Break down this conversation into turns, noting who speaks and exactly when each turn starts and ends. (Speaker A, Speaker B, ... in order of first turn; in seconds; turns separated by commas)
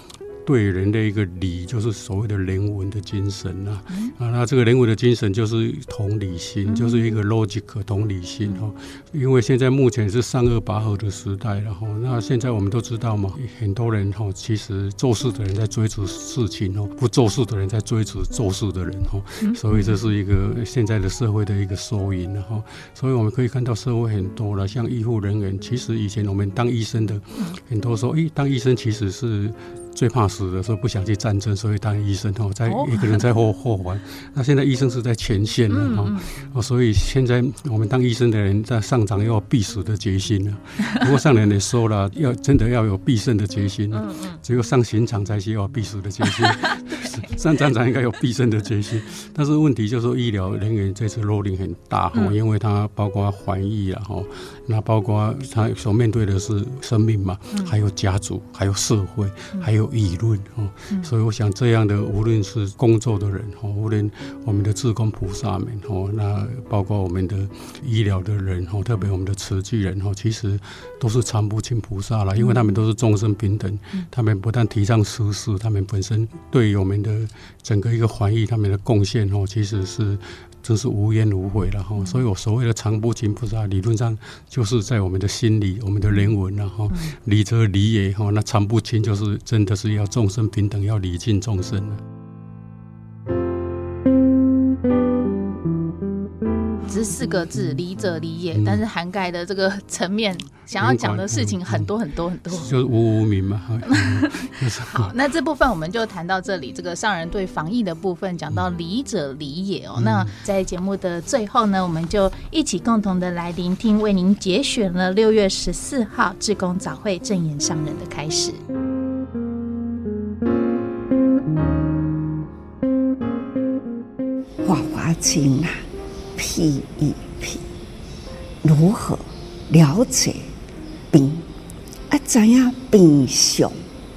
Speaker A: 0.4-92.0, Speaker B: 6.7-7.2, Speaker B: 19.4-20.0, Speaker B: 32.7-33.2, Speaker B: 35.7-36.3, Speaker B: 43.9-44.4, Speaker B: 46.2-47.1, Speaker B: 72.4-72.8, Speaker B: 82.0-82.2, Speaker B: 96.9-102.7, Speaker A: 98.5-98.8, Speaker A: 100.8-101.9, Speaker A: 102.5-105.1, Speaker B: 103.8-118.6, Speaker A: 110.0-110.4, Speaker C: 124.7-125.8, Speaker C: 126.4-127.6, Speaker C: 128.6-130.5, Speaker C: 131.1-131.4, Speaker C: 132.1-133.8